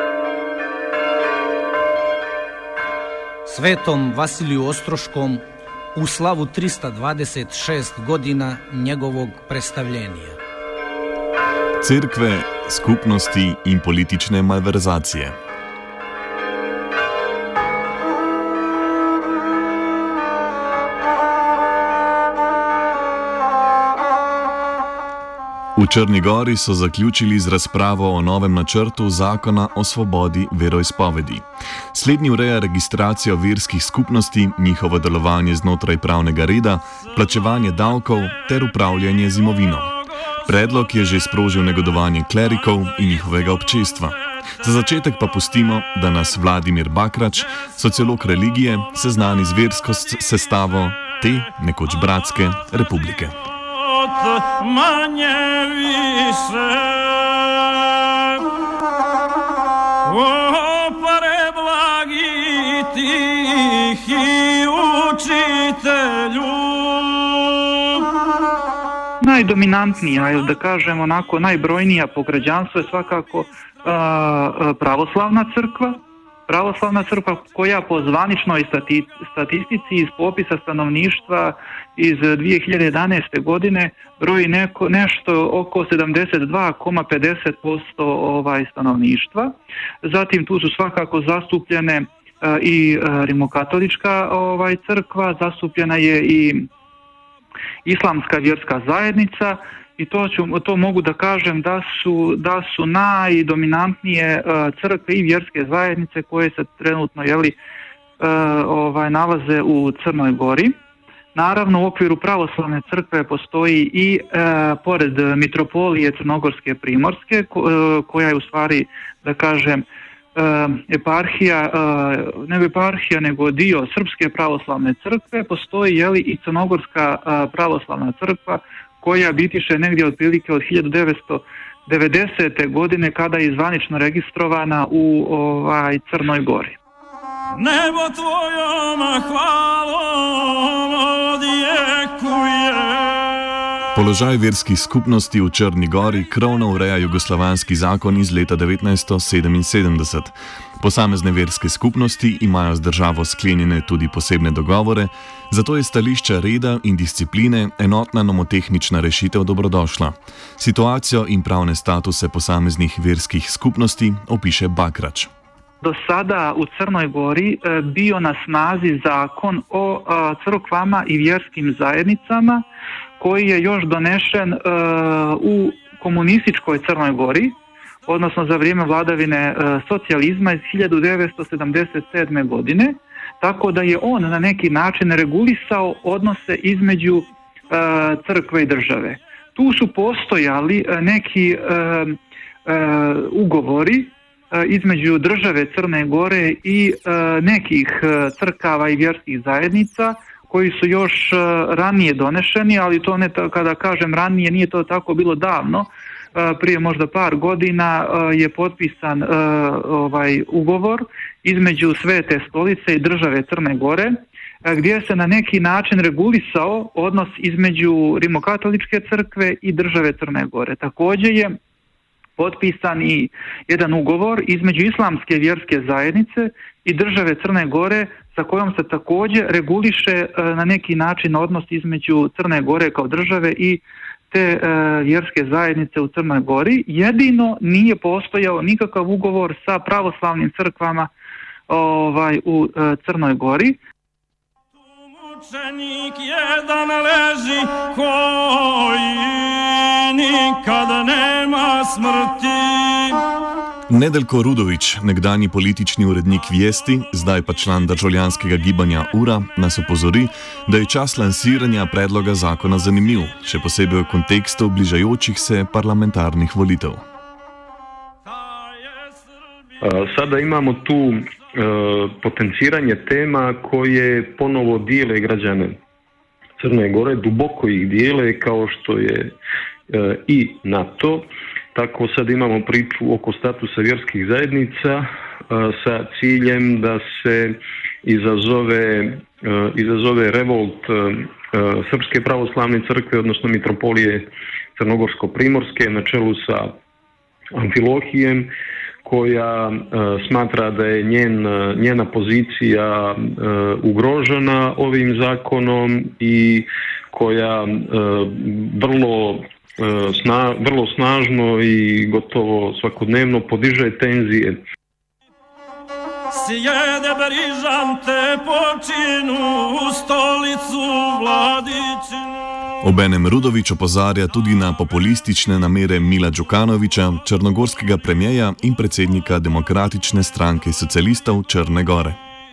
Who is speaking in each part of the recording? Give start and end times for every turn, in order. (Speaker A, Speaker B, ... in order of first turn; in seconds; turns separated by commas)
Speaker A: 3.5-5.4, Speaker A: 5.9-10.4, Speaker B: 11.8-15.3, Speaker B: 25.8-39.9, Speaker B: 40.4-53.4, Speaker C: 53.8-58.4, Speaker C: 60.0-68.0, Speaker D: 69.2-96.7, Speaker D: 97.8-107.6, Speaker D: 108.2-110.8, Speaker D: 111.3-119.8, Speaker D: 120.3-136.8, Speaker C: 137.6-143.5, Speaker B: 143.9-165.3, Speaker D: 165.8-172.6, Speaker D: 173.2-221.5, Speaker D: 222.4-241.1, Speaker D: 241.7-243.8, Speaker C: 244.9-253.2, Speaker B: 253.9-267.0, Speaker C: 268.2-269.3, Speaker E: 269.8-275.8, Speaker E: 276.6-279.4, Speaker E: 279.9-296.7, Speaker E: 297.5-298.5, Speaker E: 299.0-314.6, Speaker C: 316.3-322.3, Speaker B: 322.8-332.2